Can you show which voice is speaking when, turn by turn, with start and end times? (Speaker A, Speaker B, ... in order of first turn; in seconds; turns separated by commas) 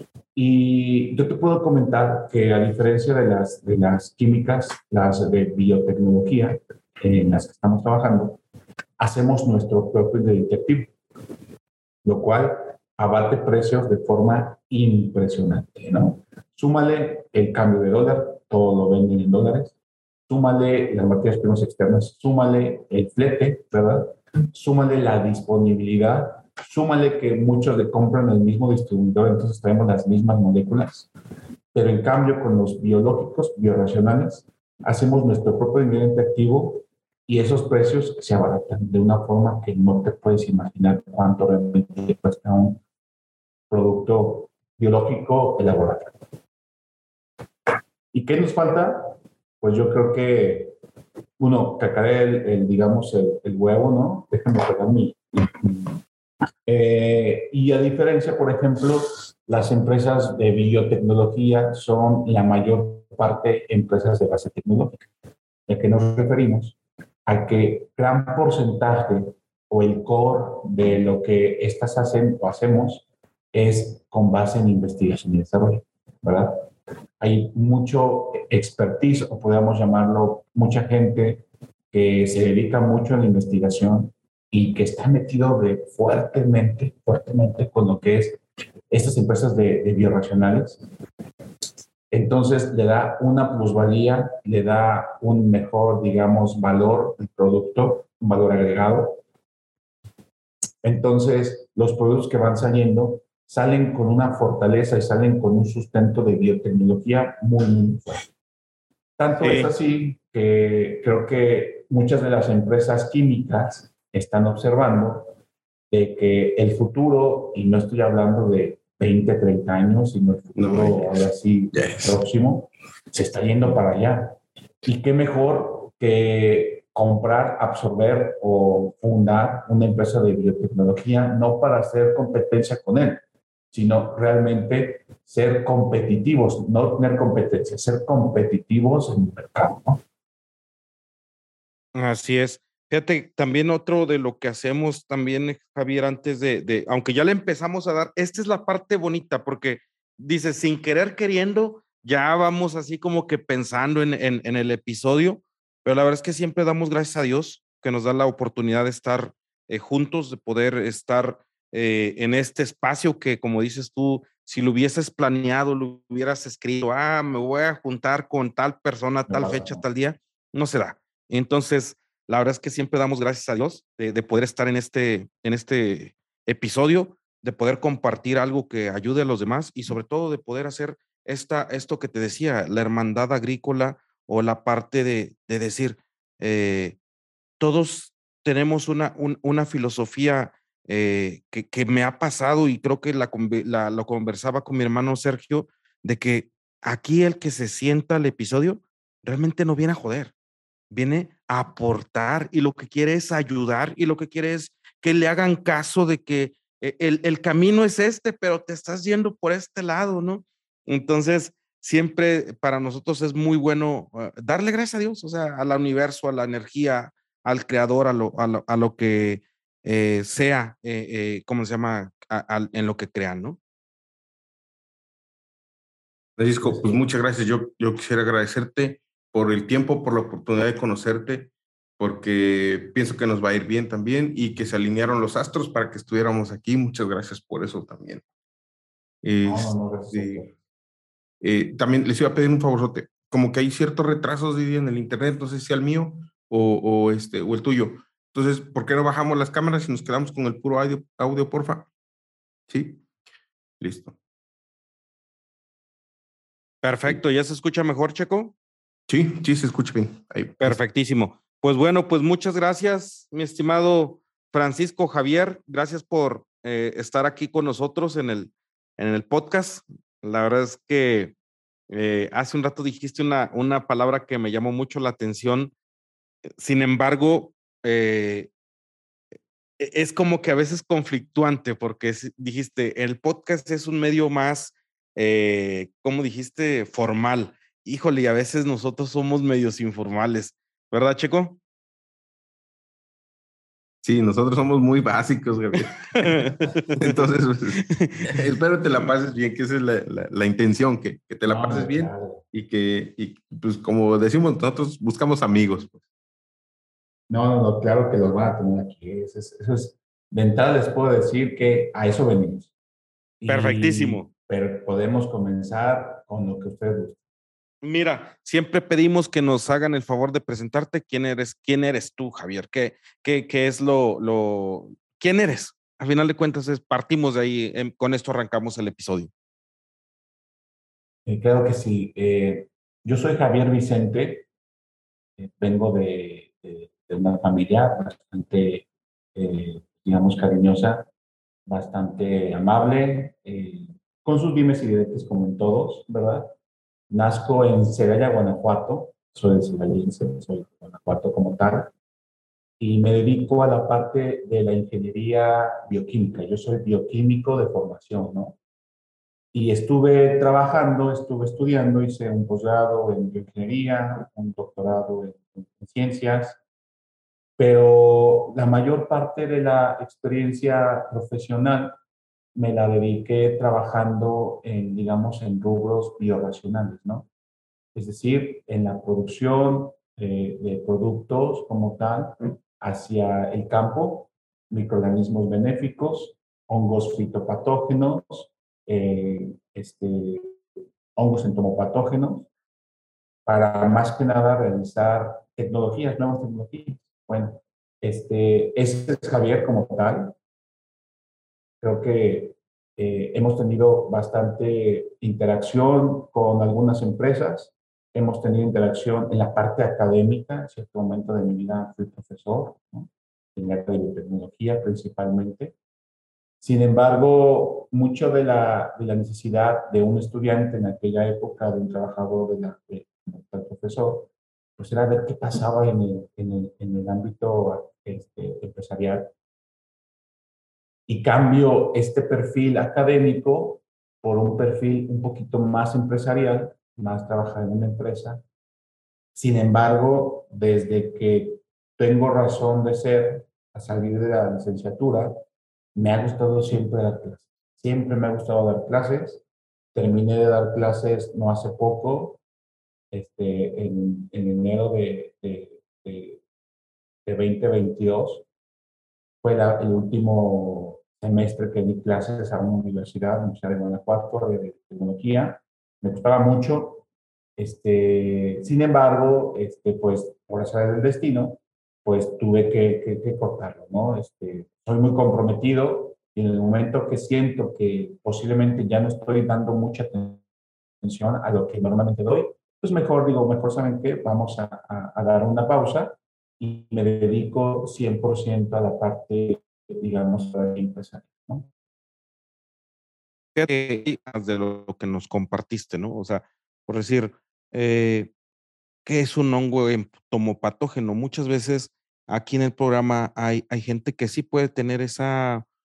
Speaker A: 0.3-8.4, Speaker A: 9.0-10.9, Speaker A: 12.0-19.7, Speaker A: 20.3-31.1, Speaker A: 31.7-42.8, Speaker A: 43.7-46.1, Speaker A: 48.1-50.8, Speaker A: 51.4-56.0, Speaker A: 56.6-65.0, Speaker A: 65.7-66.8, Speaker A: 67.3-76.7, Speaker A: 77.2-90.8, Speaker A: 92.1-99.2, Speaker A: 100.8-108.2, Speaker A: 109.2-115.3, Speaker B: 109.4-109.7, Speaker A: 115.9-140.0, Speaker C: 120.5-121.2, Speaker C: 121.7-122.1, Speaker B: 141.9-187.0, Speaker A: 169.3-169.8, Speaker B: 187.6-200.3, Speaker B: 200.9-223.6, Speaker C: 226.4-238.2, Speaker A: 226.6-227.0, Speaker C: 239.2-240.4, Speaker A: 239.4-240.5, Speaker C: 241.4-251.9, Speaker C: 252.7-253.0, Speaker C: 253.8-254.2, Speaker B: 256.8-258.5, Speaker C: 259.1-260.8, Speaker B: 260.6-271.3, Speaker B: 271.9-275.7, Speaker B: 276.6-278.5, Speaker B: 279.8-291.6, Speaker C: 294.0-306.0, Speaker B: 296.2-297.2, Speaker B: 297.9-298.3, Speaker A: 301.4-302.4, Speaker A: 307.3-312.7, Speaker A: 313.4-317.2, Speaker B: 313.5-314.3, Speaker B: 317.8-329.3, Speaker A: 331.2-334.5, Speaker A: 335.4-341.1, Speaker A: 341.7-346.5, Speaker A: 347.1-351.9, Speaker A: 352.8-358.6, Speaker A: 359.5-366.6, Speaker A: 367.6-371.9, Speaker A: 372.5-377.3, Speaker A: 377.9-390.6, Speaker A: 391.1-392.5, Speaker A: 393.4-400.4, Speaker A: 401.8-415.7, Speaker A: 416.6-429.3, Speaker A: 431.1-438.4, Speaker A: 439.3-445.4, Speaker A: 445.9-449.4, Speaker A: 449.9-452.4, Speaker A: 453.1-456.4, Speaker A: 457.2-458.4, Speaker A: 459.4-467.0, Speaker A: 467.6-480.4, Speaker A: 481.0-491.7, Speaker B: 493.6-498.3, Speaker B: 499.0-505.6